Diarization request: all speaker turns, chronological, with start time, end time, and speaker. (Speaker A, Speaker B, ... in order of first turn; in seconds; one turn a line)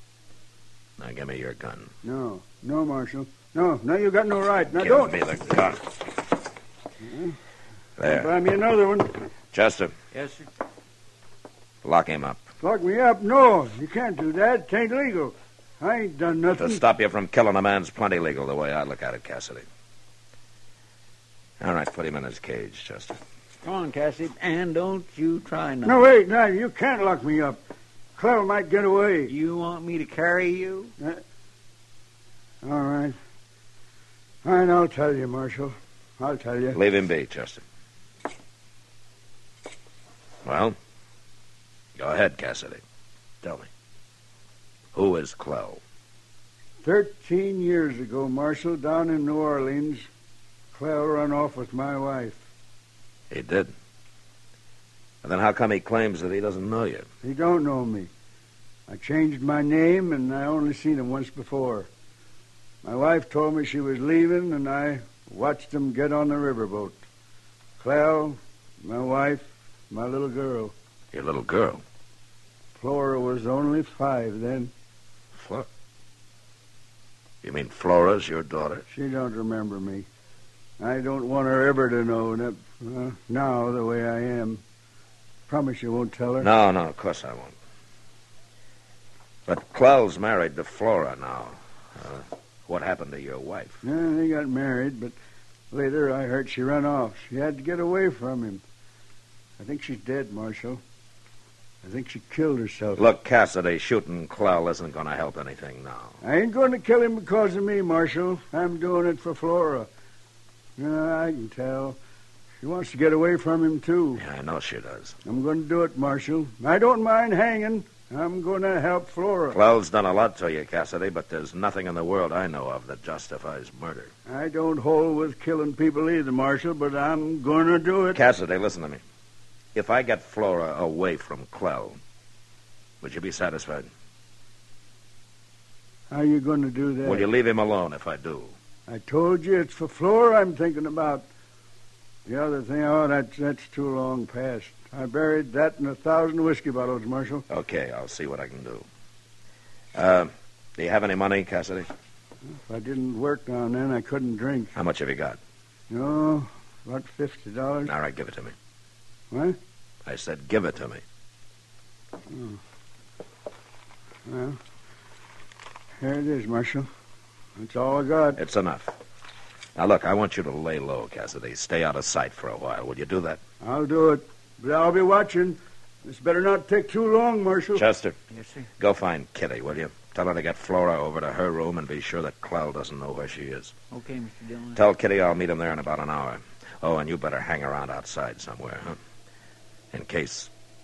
Speaker A: 1.0-1.9
Speaker B: 2.0-5.1
Speaker A: 4.8-6.0
Speaker B: 7.0-7.3
Speaker A: 8.0-8.3
Speaker B: 8.0-9.2
Speaker A: 9.5-9.9
Speaker C: 10.1-10.4
Speaker A: 11.8-12.4
Speaker B: 12.6-16.8
Speaker A: 16.6-19.6
Speaker A: 21.6-23.2
Speaker C: 23.6-26.0
Speaker B: 25.8-27.6
Speaker B: 28.2-29.3
Speaker C: 29.3-30.9
Speaker B: 32.6-33.1
Speaker B: 34.4-36.8
Speaker A: 36.7-37.6
Speaker A: 40.4-40.8
Speaker A: 42.0-42.8
Speaker A: 43.4-43.7
Speaker A: 44.9-45.8
Speaker B: 46.8-50.1
Speaker B: 50.7-52.4
Speaker A: 53.3-53.7
Speaker A: 55.2-57.1
Speaker B: 57.2-58.1
Speaker B: 58.9-61.9
Speaker B: 62.8-67.0
Speaker B: 67.8-70.7
Speaker A: 71.1-71.8
Speaker B: 72.8-74.7
Speaker A: 75.3-75.7
Speaker A: 77.4-78.8
Speaker B: 78.9-80.0
Speaker B: 80.8-84.6
Speaker B: 85.5-86.5
Speaker A: 86.4-87.5
Speaker A: 89.5-93.8
Speaker B: 93.8-95.1
Speaker B: 95.7-98.6
Speaker B: 99.6-100.8
Speaker B: 101.8-103.0
Speaker A: 103.0-106.2
Speaker B: 106.2-109.9
Speaker B: 110.8-112.0
Speaker B: 112.6-114.2
Speaker A: 114.2-115.2
Speaker B: 115.2-119.6
Speaker A: 119.5-124.1
Speaker B: 124.3-128.2
Speaker A: 128.1-129.0
Speaker A: 129.7-132.0
Speaker A: 133.0-133.9
Speaker B: 136.1-137.2
Speaker A: 137.0-138.5
Speaker B: 138.9-141.3
Speaker B: 142.3-147.4
Speaker A: 147.5-148.8
Speaker A: 149.9-151.9
Speaker B: 152.5-154.7
Speaker A: 154.7-155.4
Speaker B: 155.9-157.9
Speaker A: 157.8-158.5
Speaker B: 159.3-159.6
Speaker A: 160.0-161.0
Speaker B: 162.3-162.6
Speaker B: 164.2-164.6
Speaker B: 166.0-166.9
Speaker B: 167.6-168.4
Speaker A: 168.4-168.9
Speaker A: 169.8-173.4
Speaker B: 173.6-177.8
Speaker A: 177.7-178.2
Speaker C: 178.3-178.7
Speaker A: 178.8-183.7
Speaker C: 183.9-184.8
Speaker A: 184.7-189.0
Speaker A: 189.9-190.5